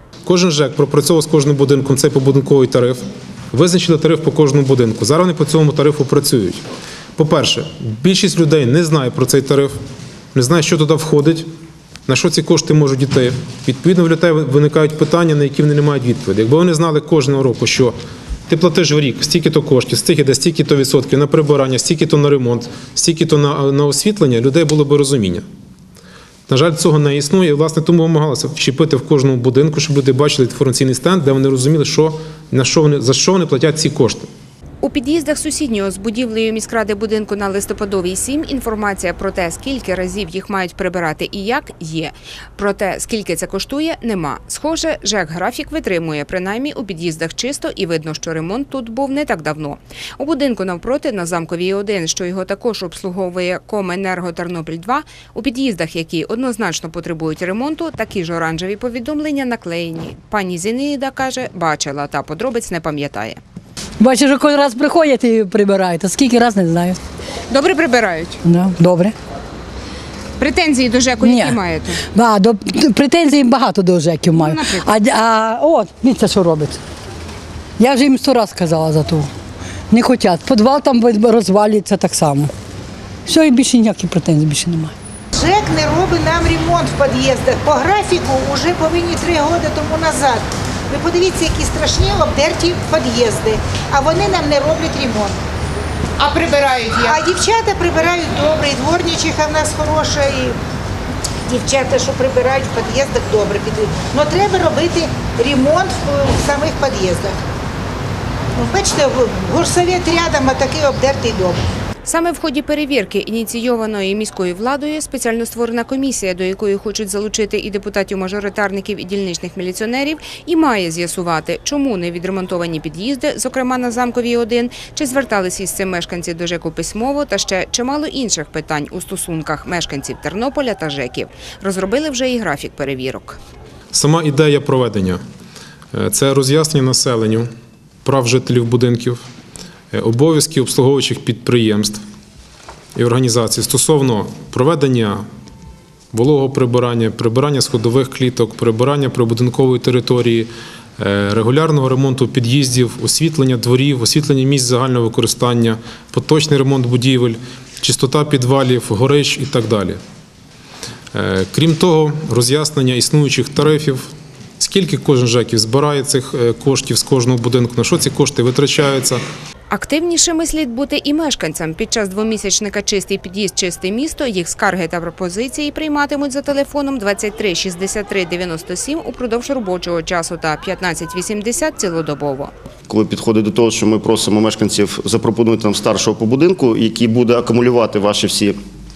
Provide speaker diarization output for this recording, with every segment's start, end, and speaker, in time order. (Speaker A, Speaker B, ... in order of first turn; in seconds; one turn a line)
Speaker A: 0.3-6.6
Speaker A: 7.2-9.7
Speaker A: 10.3-11.5
Speaker A: 12.1-17.9
Speaker A: 18.5-25.4
Speaker A: 26.5-34.3
Speaker B: 34.8-63.4
Speaker C: 64.0-67.0
Speaker B: 67.5-68.4
Speaker C: 68.4-69.2
Speaker B: 70.4-72.0
Speaker C: 71.2-71.6
Speaker C: 72.1-76.8
Speaker B: 74.3-75.0
Speaker C: 77.8-79.3
Speaker C: 79.9-82.5
Speaker C: 83.3-84.9
Speaker D: 85.3-95.4
Speaker D: 97.0-100.6
Speaker D: 101.5-107.4
Speaker D: 108.5-111.6
Speaker B: 112.0-133.4
Speaker A: 133.9-135.2
Speaker A: 135.9-137.5
Speaker A: 138.0-139.2
Speaker A: 139.9-142.0
Speaker A: 142.9-145.2
Speaker A: 146.1-160.0
Speaker A: 161.1-169.2
Speaker B: 169.7-182.5
Speaker E: 182.9-188.6